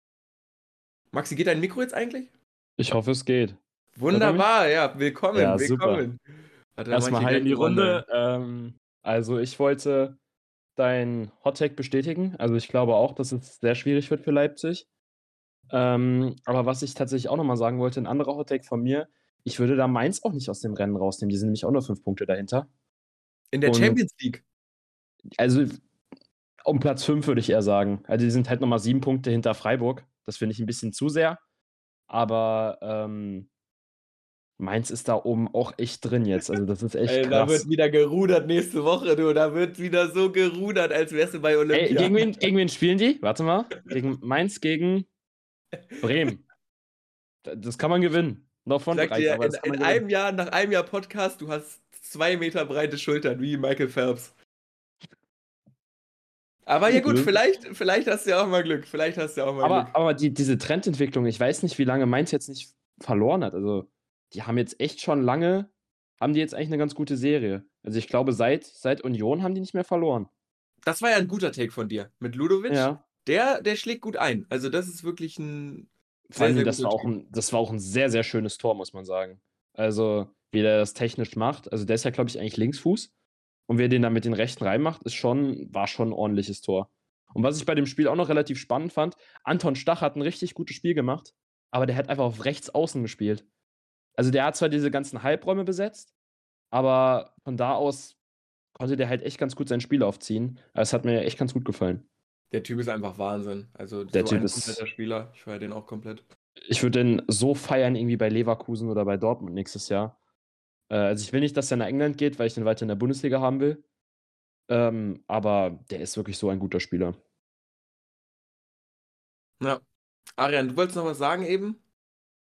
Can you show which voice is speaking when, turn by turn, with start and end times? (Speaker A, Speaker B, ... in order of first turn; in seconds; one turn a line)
Speaker A: 1.1-2.3
Speaker B: 2.8-3.6
Speaker A: 4.0-6.2
Speaker B: 4.1-4.5
Speaker B: 5.3-6.1
Speaker A: 6.8-8.0
Speaker B: 6.9-10.2
Speaker B: 10.8-14.8
Speaker B: 15.7-22.7
Speaker A: 23.5-24.4
Speaker B: 23.6-24.0
Speaker B: 25.4-25.8
Speaker B: 26.6-31.4
Speaker B: 32.1-33.5
Speaker B: 34.6-37.7
Speaker A: 37.0-42.4
Speaker B: 41.7-45.1
Speaker B: 46.0-46.4
Speaker B: 47.4-50.0
Speaker A: 48.9-54.3
Speaker A: 56.7-59.9
Speaker B: 56.9-57.3
Speaker B: 59.6-70.3
Speaker A: 70.8-77.1
Speaker B: 72.7-73.0
Speaker B: 76.3-83.1
Speaker B: 83.7-93.4
Speaker B: 94.2-96.1
Speaker B: 96.7-98.2
Speaker B: 98.7-102.0
Speaker A: 102.5-106.2
Speaker B: 104.1-104.8
Speaker B: 106.7-110.2
Speaker B: 110.9-113.8
Speaker B: 114.7-117.2
Speaker A: 119.6-119.8
Speaker A: 120.4-121.8